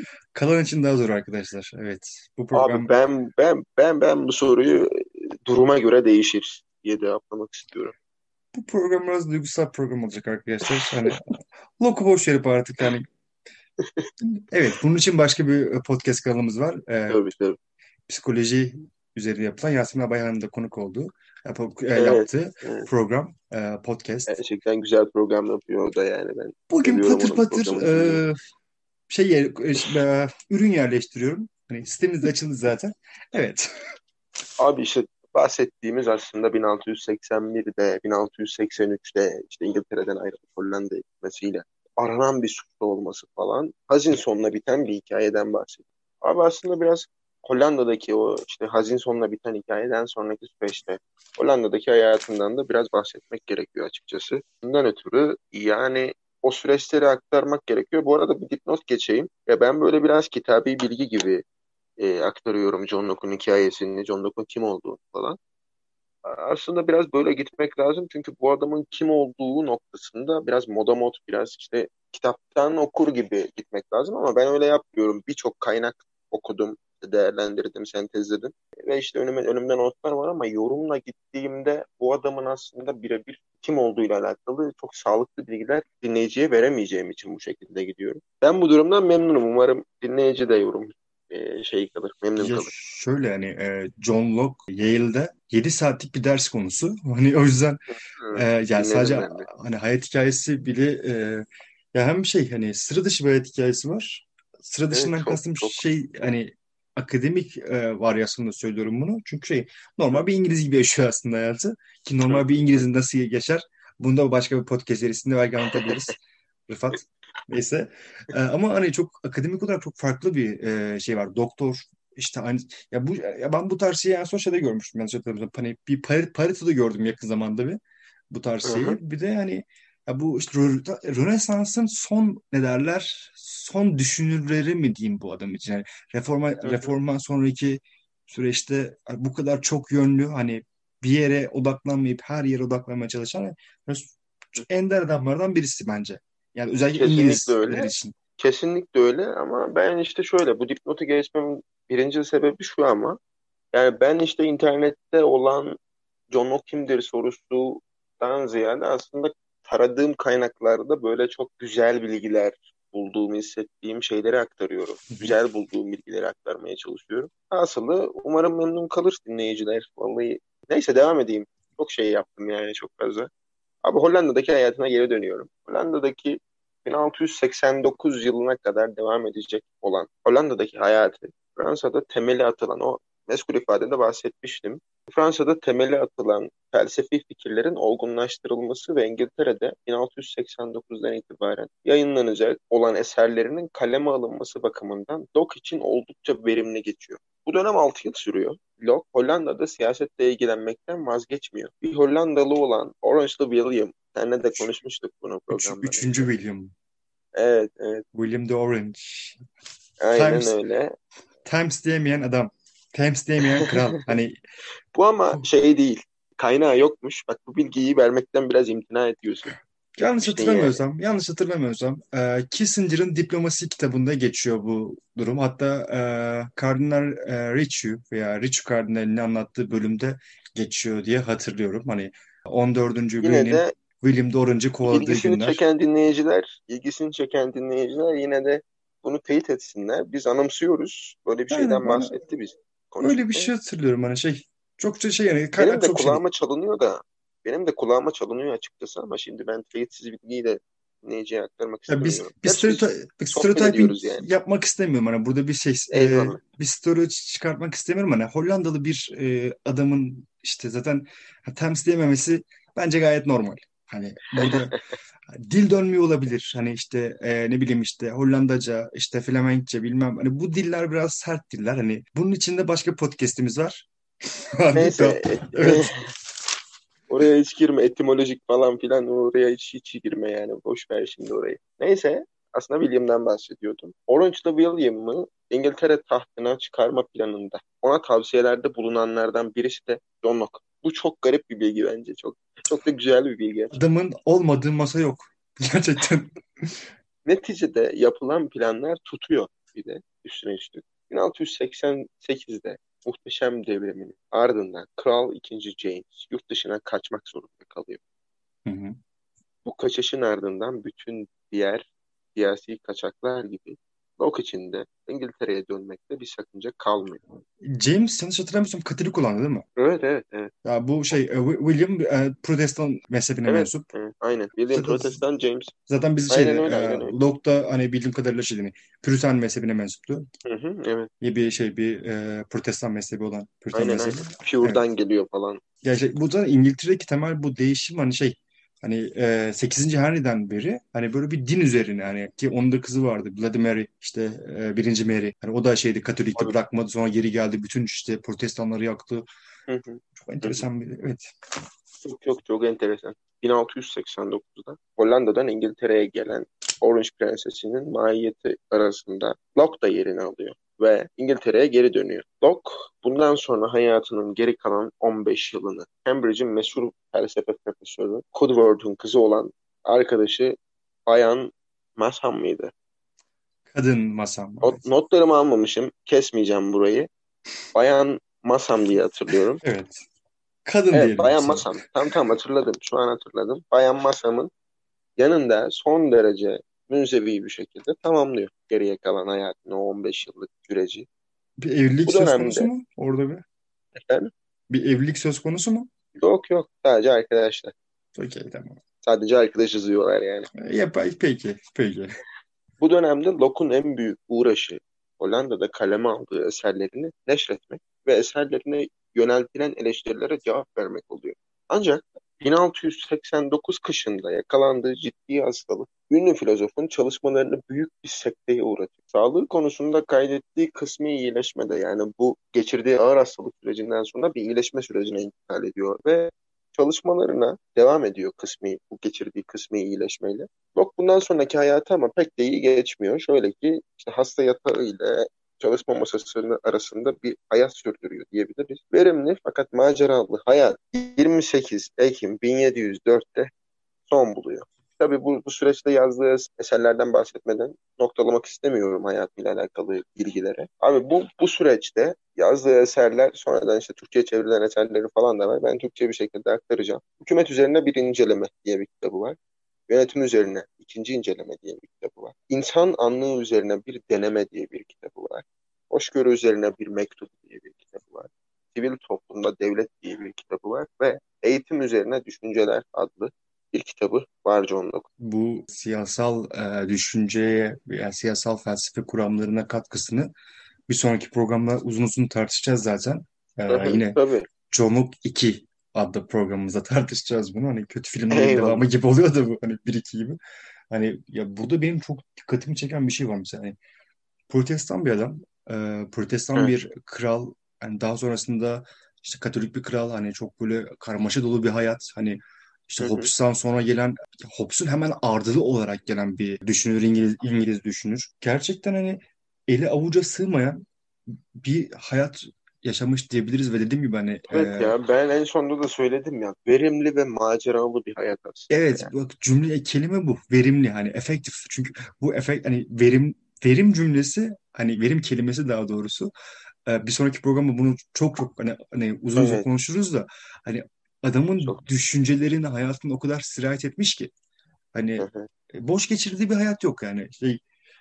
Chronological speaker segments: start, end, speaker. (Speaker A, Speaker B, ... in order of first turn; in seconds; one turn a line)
Speaker A: 0.3-2.9
Speaker B: 2.5-7.9
Speaker A: 8.5-13.1
Speaker B: 13.8-14.1
Speaker A: 14.2-17.2
Speaker B: 17.1-17.6
Speaker A: 18.1-24.4
Speaker B: 21.9-22.9
Speaker B: 24.3-28.2
Speaker A: 26.7-28.4
Speaker A: 29.1-33.7
Speaker B: 34.6-61.4
Speaker B: 62.0-65.4
Speaker B: 66.2-92.7
Speaker A: 92.4-97.8
Speaker B: 97.9-99.5
Speaker A: 98.3-116.2
Speaker B: 104.9-105.8
Speaker B: 112.3-112.8
Speaker A: 116.7-127.8
Speaker A: 128.3-148.2
Speaker B: 128.7-129.0
Speaker B: 136.6-136.9
Speaker B: 146.9-153.2
Speaker B: 153.7-155.8
Speaker B: 156.3-173.3
Speaker A: 165.1-165.4
Speaker B: 173.8-206.3
Speaker A: 205.5-206.7
Speaker B: 207.4-208.1
Speaker A: 208.1-209.4
Speaker B: 210.0-211.0
Speaker A: 210.1-210.6
Speaker A: 211.4-214.4
Speaker B: 214.9-219.5
Speaker A: 220.0-235.6
Speaker B: 220.2-220.8
Speaker B: 233.2-233.7
Speaker B: 234.8-243.5
Speaker A: 241.5-242.2
Speaker A: 243.0-246.2
Speaker B: 245.6-254.2
Speaker A: 251.9-273.9
Speaker B: 255.9-256.4
Speaker B: 264.4-264.7
Speaker A: 274.6-275.9
Speaker B: 274.7-276.0
Speaker B: 277.1-293.7
Speaker A: 293.7-296.9
Speaker B: 297.2-308.0
Speaker A: 308.6-309.0
Speaker B: 309.6-317.2
Speaker A: 317.6-319.6
Speaker B: 319.8-320.5
Speaker A: 320.6-323.9
Speaker B: 323.4-325.7
Speaker A: 324.7-325.2
Speaker A: 325.9-330.3
Speaker B: 326.3-327.1
Speaker B: 330.4-331.1
Speaker A: 331.2-334.8
Speaker B: 333.7-335.6
Speaker A: 335.8-349.3
Speaker B: 349.7-350.7
Speaker A: 350.2-351.3
Speaker B: 352.1-372.7
Speaker A: 373.7-374.8
Speaker B: 374.6-377.1
Speaker B: 377.8-379.6
Speaker A: 379.6-380.0
Speaker A: 380.6-381.7
Speaker B: 380.9-384.5
Speaker B: 385.2-391.1
Speaker A: 391.6-393.4
Speaker B: 392.1-392.7
Speaker B: 394.0-394.3
Speaker A: 394.7-395.9
Speaker B: 396.2-397.7
Speaker A: 398.2-398.8
Speaker B: 399.0-400.5
Speaker A: 400.6-402.1
Speaker B: 402.8-443.5
Speaker B: 444.1-459.4
Speaker B: 459.9-475.1
Speaker A: 475.2-480.3
Speaker A: 480.9-484.2
Speaker B: 483.7-484.5
Speaker A: 484.7-490.4
Speaker B: 488.3-488.9
Speaker A: 490.9-493.8
Speaker A: 494.5-515.0
Speaker B: 503.0-503.3
Speaker B: 514.5-519.1
Speaker A: 518.7-526.3
Speaker A: 526.9-534.3
Speaker B: 529.4-529.7
Speaker A: 534.9-537.6
Speaker B: 535.2-535.5